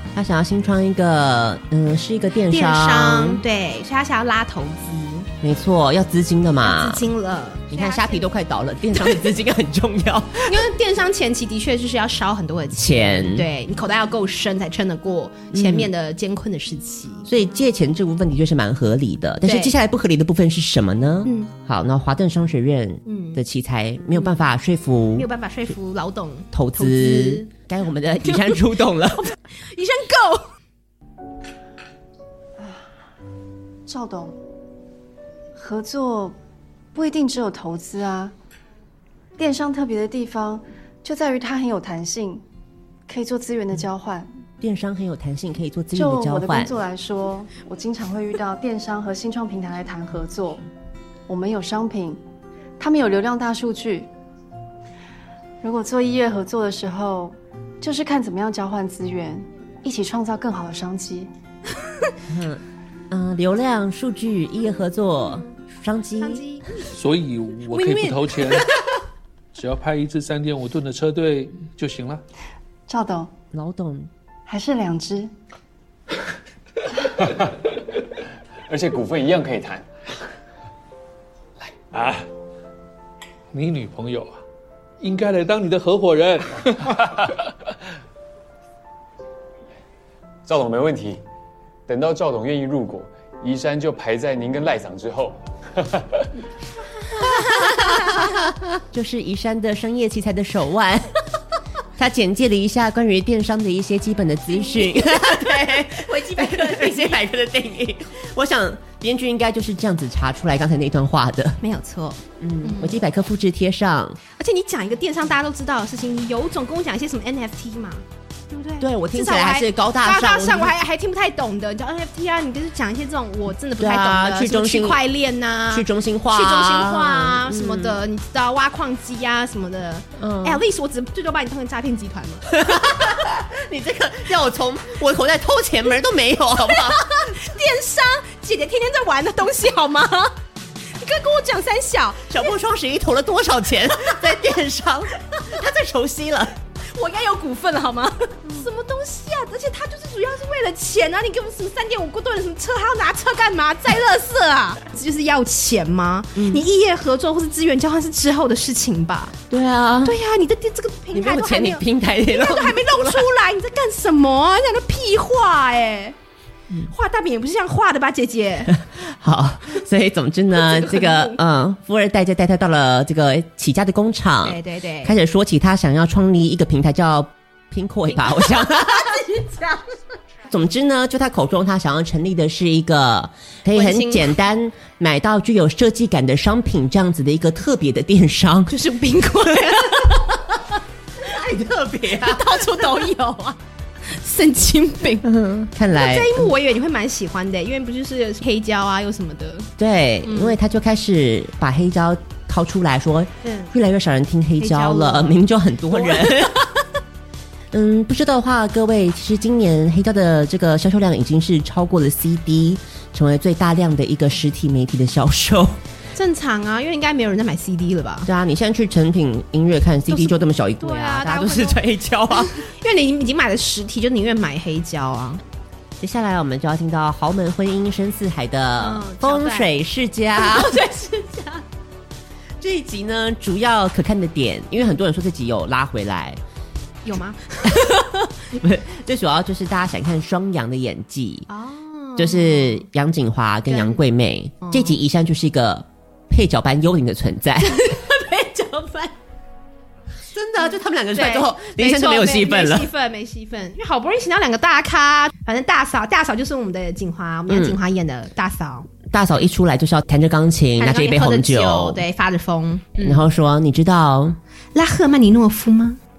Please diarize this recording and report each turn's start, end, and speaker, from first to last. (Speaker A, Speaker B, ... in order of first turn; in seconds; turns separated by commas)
Speaker A: 0.1-3.4, Speaker B: 2.5-5.3, Speaker A: 5.4-7.1, Speaker B: 6.6-8.3, Speaker A: 7.7-10.7, Speaker B: 10.5-17.3, Speaker A: 12.8-13.5, Speaker A: 15.5-15.9, Speaker A: 17.2-25.3, Speaker B: 19.4-19.7, Speaker B: 21.2-21.5, Speaker B: 23.1-23.4, Speaker B: 25.2-27.5, Speaker A: 26.5-29.3, Speaker B: 28.2-30.5, Speaker C: 32.6-32.9, Speaker C: 33.9-34.4, Speaker C: 35.6-36.4, Speaker C: 36.9-38.3, Speaker C: 39.4-42.4, Speaker C: 43.1-44.3, Speaker A: 44.6-46.8, Speaker C: 45.9-50.6, Speaker C: 51.3-52.2, Speaker C: 52.8-54.1, Speaker C: 55.6-61.3, Speaker A: 62.3-66.4, Speaker B: 65.2-65.5, Speaker B: 66.2-66.9, Speaker D: 66.9-68.7, Speaker B: 67.7-68.6, Speaker D: 69.5-72.2, Speaker C: 72.9-73.3, Speaker A: 73.5-74.1, Speaker C: 74.5-75.3, Speaker E: 78.7-79.9, Speaker D: 83.5-84.4, Speaker D: 85.0-86.6, Speaker E: 90.5-91.2, Speaker E: 91.9-95.4, Speaker B: 97.1-98.4, Speaker A: 97.5-101.1, Speaker A: 102.0-111.6, Speaker B: 104.9-107.2, Speaker B: 111.6-113.0, Speaker A: 112.4-114.2, Speaker B: 114.4-133.2, Speaker A: 118.8-120.7, Speaker A: 123.8-125.0, Speaker A: 125.7-128.0, Speaker A: 130.2-130.6, Speaker A: 132.5-137.2, Speaker B: 136.6-140.4, Speaker B: 140.9-142.4, Speaker A: 142.3-146.6, Speaker B: 146.8-159.4, Speaker A: 156.3-156.6, Speaker A: 159.5-160.2, Speaker B: 160.0-166.2, Speaker A: 161.1-163.3, Speaker B: 166.9-168.7, Speaker A: 168.7-179.2, Speaker B: 170.5-171.4, Speaker B: 174.4-175.2, Speaker B: 178.1-179.9, Speaker A: 180.5-188.7, Speaker B: 183.7-184.4, Speaker B: 188.7-190.6, Speaker A: 191.2-193.1, Speaker B: 192.2-195.3, Speaker A: 195.2-196.5, Speaker B: 195.9-199.7, Speaker A: 199.8-206.6, Speaker B: 200.2-200.6, Speaker B: 203.4-203.7, Speaker B: 204.6-205.4, Speaker B: 205.9-206.8, Speaker A: 207.7-215.8, Speaker B: 216.1-218.3, Speaker A: 218.2-222.6, Speaker B: 220.1-225.4, Speaker A: 226.0-230.8, Speaker B: 228.8-229.7, Speaker B: 230.4-231.7, Speaker A: 232.6-236.4, Speaker B: 237.1-238.3, Speaker A: 238.6-241.5, Speaker B: 241.5-242.9, Speaker A: 242.2-247.9, Speaker B: 243.7-244.0, Speaker B: 244.6-245.0, Speaker B: 247.6-249.2, Speaker A: 250.3-252.9, Speaker B: 251.1-258.9, Speaker A: 257.5-257.8, Speaker A: 259.1-262.0, Speaker B: 260.8-263.3, Speaker A: 263.0-264.4, Speaker B: 264.7-266.0